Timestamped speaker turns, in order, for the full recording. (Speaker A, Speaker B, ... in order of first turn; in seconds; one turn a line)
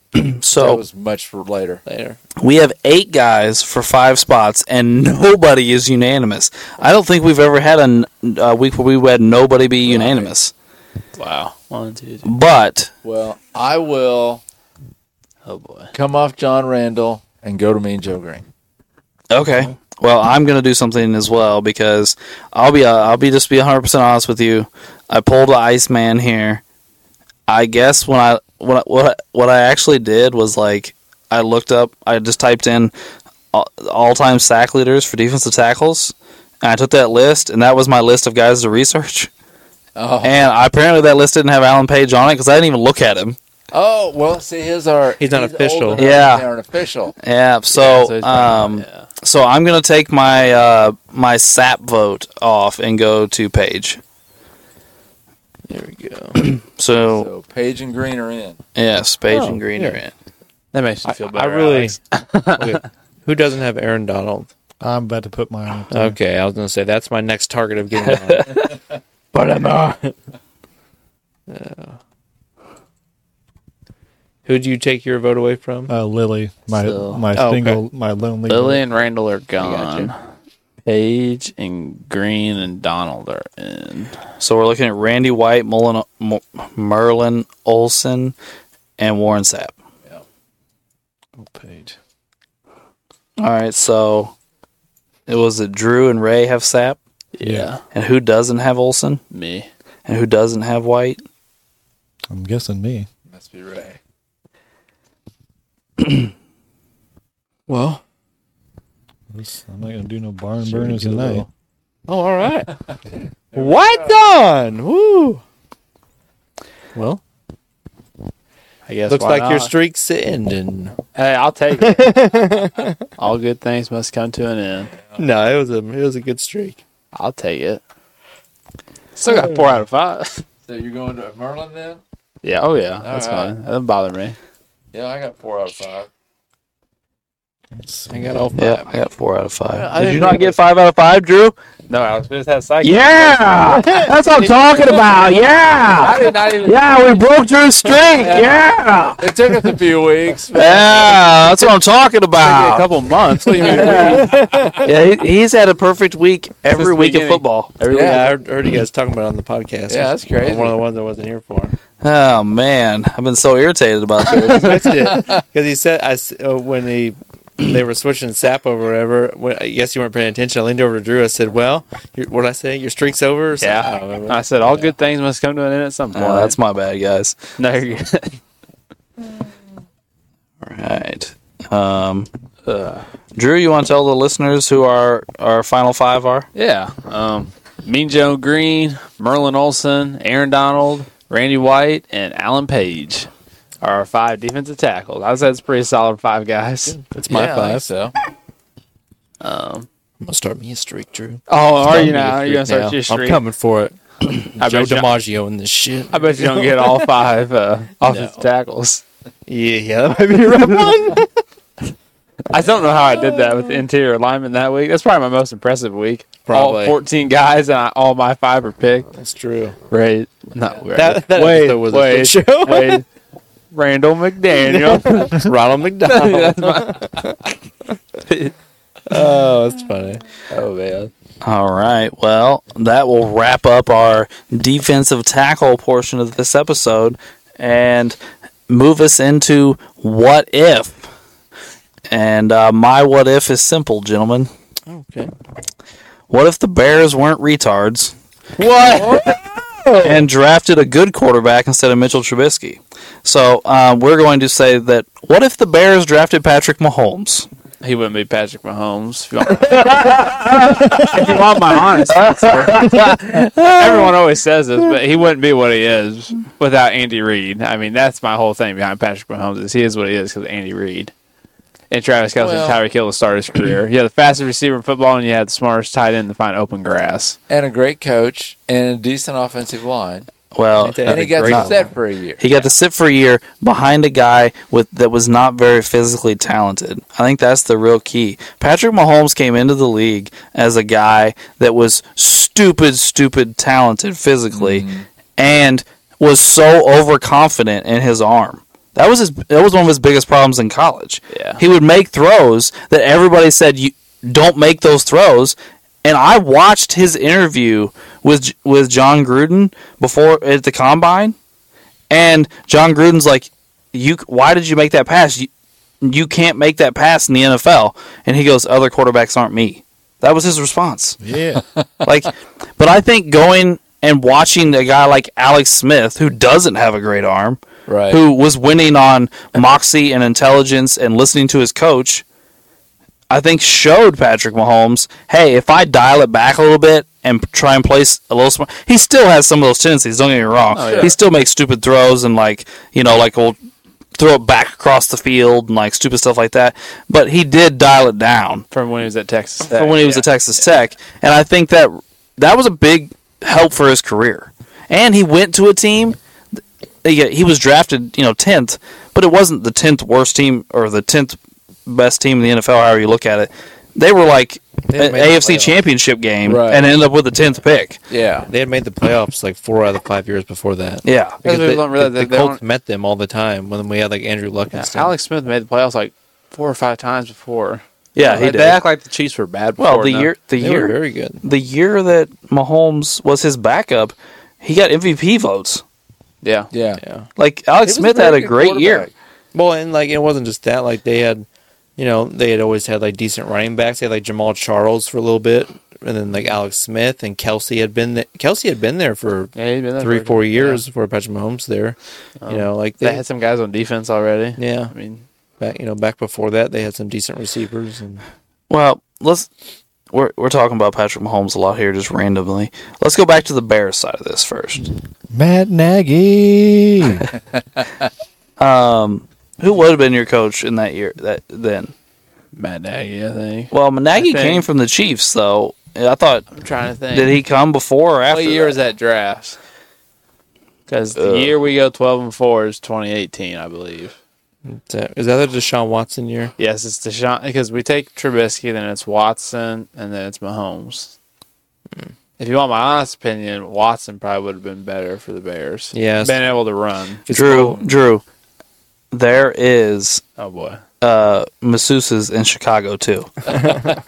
Speaker A: 0.1-0.8
Speaker B: 0.5-1.8
Speaker C: 1.9-2.2
Speaker A: 2.4-10.5
Speaker B: 9.8-10.3
Speaker D: 11.2-12.3
Speaker A: 12.2-12.9
Speaker B: 13.0-14.4
Speaker D: 15.4-15.9
Speaker B: 15.9-18.4
Speaker A: 19.3-26.6
Speaker A: 27.5-32.9
Speaker A: 33.5-39.3
Speaker B: 39.9-40.4
Speaker A: 40.2-43.4
Speaker B: 43.7-47.1
Speaker C: 45.2-46.0
Speaker A: 46.0-46.5
Speaker A: 47.2-54.0
Speaker D: 47.7-49.1
Speaker C: 55.7-56.5
Speaker A: 56.4-57.3
Speaker B: 56.9-58.6
Speaker A: 58.8-60.1
Speaker D: 59.3-60.0
Speaker D: 60.7-62.8
Speaker C: 61.0-62.0
Speaker C: 62.5-64.5
Speaker E: 64.8-66.2
Speaker C: 65.9-68.7
Speaker A: 68.0-68.7
Speaker C: 69.3-70.1
Speaker C: 71.5-72.0
Speaker C: 74.4-75.9
Speaker E: 75.9-78.8
Speaker D: 76.7-77.2
Speaker C: 77.3-77.8
Speaker D: 78.5-80.1
Speaker C: 79.6-80.1
Speaker D: 80.8-84.2
Speaker A: 84.4-88.3
Speaker A: 89.0-89.7
Speaker A: 93.4-94.3
Speaker A: 95.3-97.0
Speaker D: 97.3-97.8
Speaker E: 97.4-97.7
Speaker A: 97.9-99.2
Speaker D: 99.3-99.7
Speaker A: 100.0-101.2
Speaker E: 102.3-103.1
Speaker B: 103.3-104.0
Speaker C: 107.7-108.0
Speaker E: 109.3-111.5
Speaker C: 112.1-112.7
Speaker B: 113.5-114.2
Speaker C: 113.5-115.4
Speaker C: 116.9-117.2
Speaker D: 118.8-119.7
Speaker C: 119.1-121.0
Speaker D: 121.1-122.3
Speaker C: 121.8-123.1
Speaker D: 123.2-124.9
Speaker B: 124.9-125.2
Speaker C: 125.2-126.8
Speaker D: 127.1-127.8
Speaker D: 129.2-130.4
Speaker B: 130.7-132.0
Speaker D: 132.4-134.4
Speaker B: 133.0-133.5
Speaker B: 134.9-136.1
Speaker C: 138.1-138.9
Speaker A: 138.6-141.6
Speaker C: 140.0-140.4
Speaker D: 140.0-140.5
Speaker D: 141.9-143.9
Speaker A: 142.8-149.2
Speaker C: 143.7-144.1
Speaker D: 145.9-146.8
Speaker B: 149.2-151.2
Speaker A: 150.5-152.9
Speaker D: 152.4-154.8
Speaker A: 153.6-157.7
Speaker C: 153.9-154.8
Speaker D: 156.7-158.3
Speaker C: 157.9-161.7
Speaker B: 157.9-158.3
Speaker B: 159.9-160.7
Speaker A: 162.0-164.8
Speaker C: 164.5-174.4
Speaker D: 173.6-176.6
Speaker A: 176.1-177.4
Speaker D: 177.6-178.4
Speaker A: 180.6-182.3
Speaker D: 182.6-183.0
Speaker A: 183.3-186.5
Speaker D: 186.5-193.3
Speaker D: 193.8-197.0
Speaker C: 197.0-197.8
Speaker B: 197.3-198.1
Speaker D: 199.4-199.9
Speaker C: 200.2-207.1
Speaker D: 201.5-203.4
Speaker D: 204.6-205.1
Speaker D: 206.1-209.0
Speaker C: 209.5-211.3
Speaker D: 212.5-219.1
Speaker C: 213.2-213.6
Speaker C: 216.4-217.0
Speaker C: 219.1-219.8
Speaker D: 219.9-223.0
Speaker C: 220.9-223.0
Speaker D: 223.7-225.4
Speaker C: 224.7-227.4
Speaker D: 226.1-227.1
Speaker C: 229.1-230.2
Speaker D: 230.5-231.1
Speaker A: 231.4-238.2
Speaker A: 238.7-241.1
Speaker A: 242.1-244.5
Speaker C: 244.9-245.3
Speaker A: 246.3-248.1
Speaker C: 248.6-250.2
Speaker A: 250.0-257.5
Speaker D: 257.8-259.8
Speaker A: 259.5-264.1
Speaker D: 260.9-271.1
Speaker D: 271.9-277.4
Speaker B: 272.4-272.8
Speaker B: 277.5-280.3
Speaker A: 280.5-281.7
Speaker C: 280.8-281.9
Speaker B: 281.1-282.4
Speaker A: 282.4-294.9
Speaker B: 294.5-295.1
Speaker A: 295.4-311.3
Speaker D: 301.3-301.6
Speaker A: 312.1-315.5
Speaker A: 316.0-321.2
Speaker E: 321.2-321.6
Speaker A: 322.0-332.2
Speaker B: 327.9-328.2
Speaker A: 333.3-343.6
Speaker D: 340.7-341.1
Speaker B: 340.8-341.1
Speaker A: 344.1-348.6
Speaker D: 348.7-350.3
Speaker A: 349.6-356.2
Speaker A: 357.0-368.0
Speaker C: 364.9-365.8
Speaker B: 366.4-366.9
Speaker B: 368.1-368.5
Speaker C: 368.5-375.1
Speaker A: 371.0-371.4
Speaker D: 371.4-372.6
Speaker D: 374.7-380.3
Speaker A: 378.1-378.8
Speaker A: 379.8-385.8
Speaker C: 380.6-381.4
Speaker D: 386.4-386.7
Speaker B: 386.7-387.0
Speaker C: 387.0-387.3
Speaker A: 387.4-389.1
Speaker B: 387.8-389.1
Speaker C: 389.5-391.4
Speaker C: 392.0-403.2
Speaker D: 399.5-400.8
Speaker D: 402.4-405.2
Speaker C: 404.6-404.9
Speaker C: 405.6-408.2
Speaker A: 408.7-409.5
Speaker A: 410.1-414.9
Speaker E: 415.3-417.3
Speaker A: 418.6-421.9
Speaker D: 422.5-424.7
Speaker A: 423.7-426.4
Speaker D: 426.5-427.4
Speaker A: 427.1-428.8
Speaker D: 428.3-429.6
Speaker D: 430.9-434.1
Speaker A: 431.1-431.5
Speaker C: 434.7-436.5
Speaker D: 436.6-441.1
Speaker D: 442.4-447.2
Speaker C: 445.9-446.4
Speaker C: 447.2-447.8
Speaker A: 447.3-448.2
Speaker A: 449.1-450.2
Speaker D: 450.4-450.8
Speaker A: 451.0-453.5